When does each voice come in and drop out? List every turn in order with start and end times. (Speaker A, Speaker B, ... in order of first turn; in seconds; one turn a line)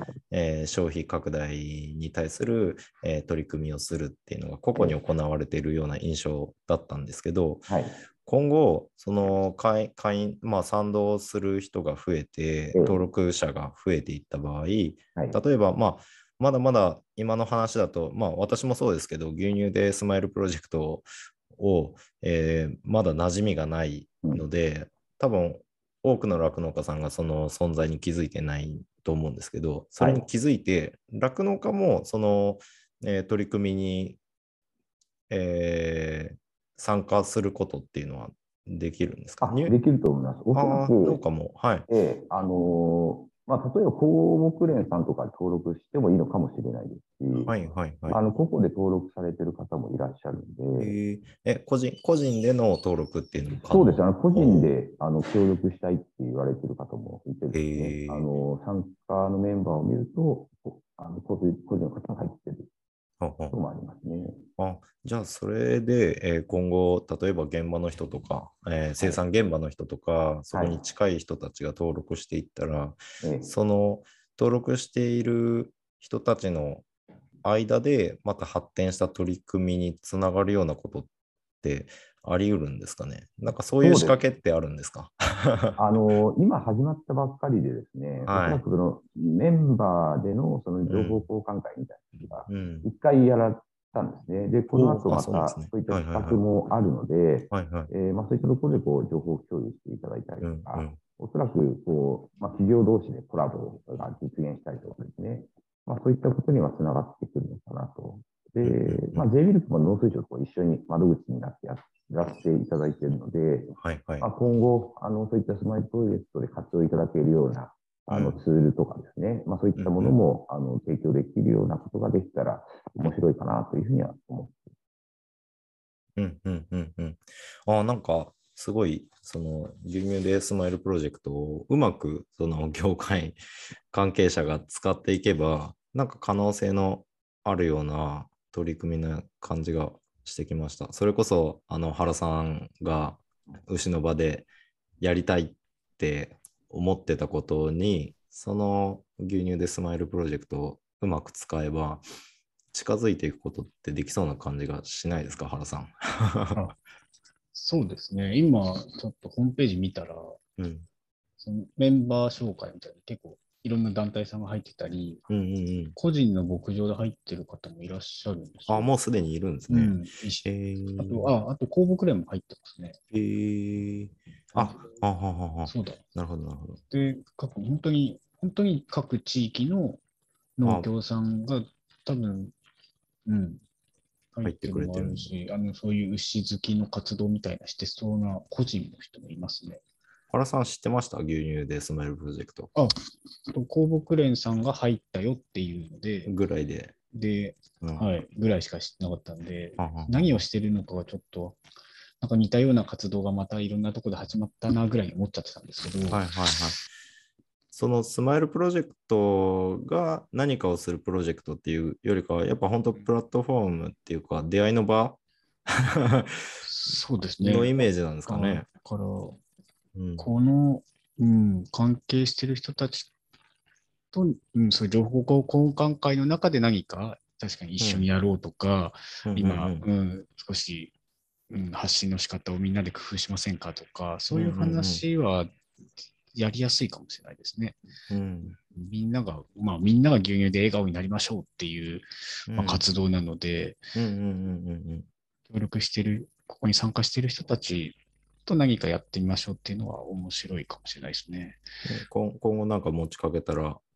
Speaker A: 0.3-7.7
Speaker B: 7.7-8.0
Speaker A: 8.2-34.2
Speaker B: 30.0-30.3
Speaker A: 35.3-39.8
Speaker B: 39.4-41.2
Speaker A: 40.5-41.9
Speaker B: 41.9-47.5
Speaker A: 47.5-48.2
Speaker B: 48.1-50.9
Speaker A: 50.8-54.7
Speaker B: 53.7-62.7
Speaker A: 57.5-58.3
Speaker A: 63.2-63.5
Speaker B: 63.5-64.4
Speaker A: 64.6-76.8
Speaker B: 70.5-70.8
Speaker B: 73.2-73.5
Speaker A: 77.4-81.1
Speaker A: 81.6-85.8
Speaker B: 83.8-84.2
Speaker B: 85.8-124.7
Speaker A: 88.3-88.6
Speaker A: 90.9-91.2
Speaker A: 92.5-92.8
Speaker A: 94.7-96.4
Speaker A: 97.5-97.9
Speaker A: 100.4-101.0
Speaker A: 108.6-109.2
Speaker A: 113.8-114.2
Speaker A: 118.1-118.4
Speaker A: 119.8-120.1
Speaker A: 126.2-133.4
Speaker A: 133.9-144.5
Speaker A: 145.0-152.1
Speaker A: 152.7-156.6
Speaker C: 157.5-160.4
Speaker A: 160.6-160.9
Speaker C: 161.4-165.3
Speaker A: 165.3-165.9
Speaker C: 165.9-168.9
Speaker A: 168.7-171.3
Speaker C: 169.7-173.0
Speaker A: 173.1-176.8
Speaker C: 174.5-174.8
Speaker C: 175.7-176.0
Speaker C: 176.9-180.0
Speaker C: 180.6-182.5
Speaker C: 183.2-183.6
Speaker C: 184.3-189.8
Speaker A: 184.4-185.3
Speaker A: 190.3-192.7
Speaker C: 193.5-196.3
Speaker A: 196.2-196.9
Speaker C: 197.1-201.6
Speaker A: 197.8-198.1
Speaker A: 199.8-200.4
Speaker C: 202.2-206.3
Speaker A: 206.1-206.9
Speaker A: 207.7-216.6
Speaker C: 216.6-219.4
Speaker A: 217.4-218.7
Speaker A: 219.9-220.3
Speaker C: 220.2-223.1
Speaker C: 224.1-230.9
Speaker A: 227.8-228.1
Speaker A: 229.2-229.8
Speaker C: 231.5-235.5
Speaker A: 234.3-235.0
Speaker C: 236.3-237.8
Speaker A: 238.1-238.6
Speaker C: 238.7-243.8
Speaker A: 242.5-242.8
Speaker A: 243.9-245.1
Speaker C: 245.5-251.6
Speaker A: 251.8-253.8